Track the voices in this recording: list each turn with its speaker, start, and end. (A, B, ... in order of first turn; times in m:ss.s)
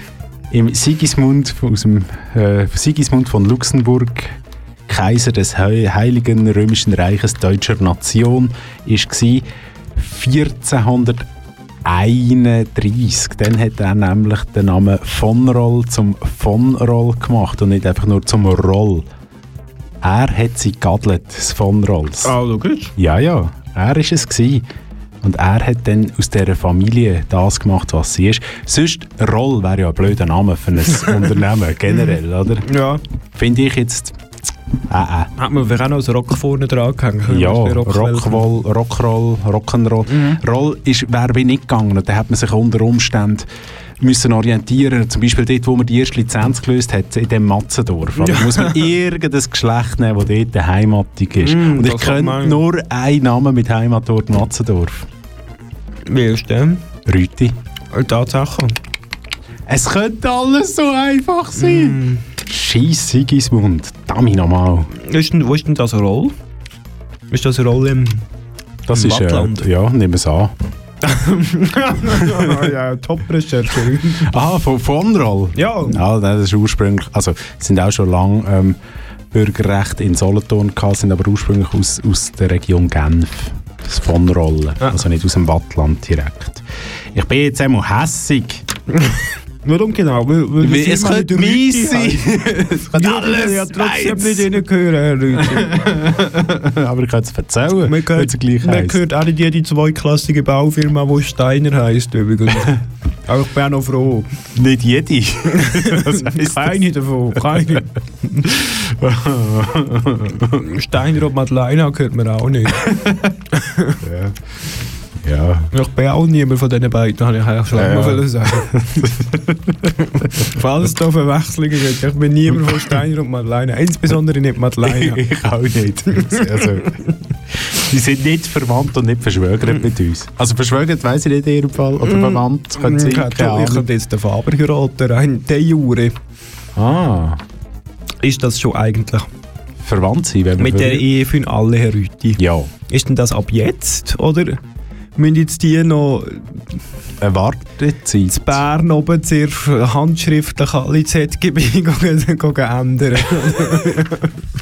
0:00.5-0:11.3 A
0:11.8-0:19.1 A
0:20.0-0:22.4 A
0:22.2-0:22.9 B
0:23.0-0:24.6 A
0:25.2-0:32.7 A
0:32.6-0:33.0 B
0:33.3-0:34.2 A
0:34.9-0:35.3 A
0:35.4-0:38.4 B
0:37.3-0:43.5 A
0:40.1-0:40.4 B
0:44.0-0:55.1 A
0:48.2-0:48.8 B
0:51.4-0:52.6 B
0:56.1-0:56.8 B
0:57.1-0:57.6 A
0:57.9-0:58.8 B
0:59.7-1:04.9 A
1:01.6-1:02.2 B
1:05.0-1:06.3 B
1:07.3-1:08.2 B
1:08.9-1:10.5 A
1:08.9-1:09.7 B
1:11.0-1:14.3 B
1:14.2-1:18.8 A
1:15.6-1:16.0 B
1:19.3-1:28.7 A
1:29.0-1:36.0 B
1:30.6-1:34.5 A
1:35.4-1:39.0 A
1:37.9-1:44.3 B
1:44.6-1:46.8 A
1:45.6-1:48.5 B
1:48.5-1:50.6 A
1:50.6-1:54.0 B
1:54.0-1:54.4 A
1:55.2-1:55.7 A
1:55.7-1:59.1 B
1:57.7-1:59.9 A
2:00.1-2:05.2 B
2:02.5-2:02.9 A
2:04.8-2:13.9 A
2:06.2-2:06.7 B
2:12.0-2:16.1 B
2:16.8-2:17.4 A
2:18.2-2:19.3 B
2:19.8-2:21.1 A
2:20.6-2:24.6 B
2:22.4-2:22.7 A
2:25.2-2:26.6 B
2:27.2-2:28.6 A
2:28.3-2:34.3 B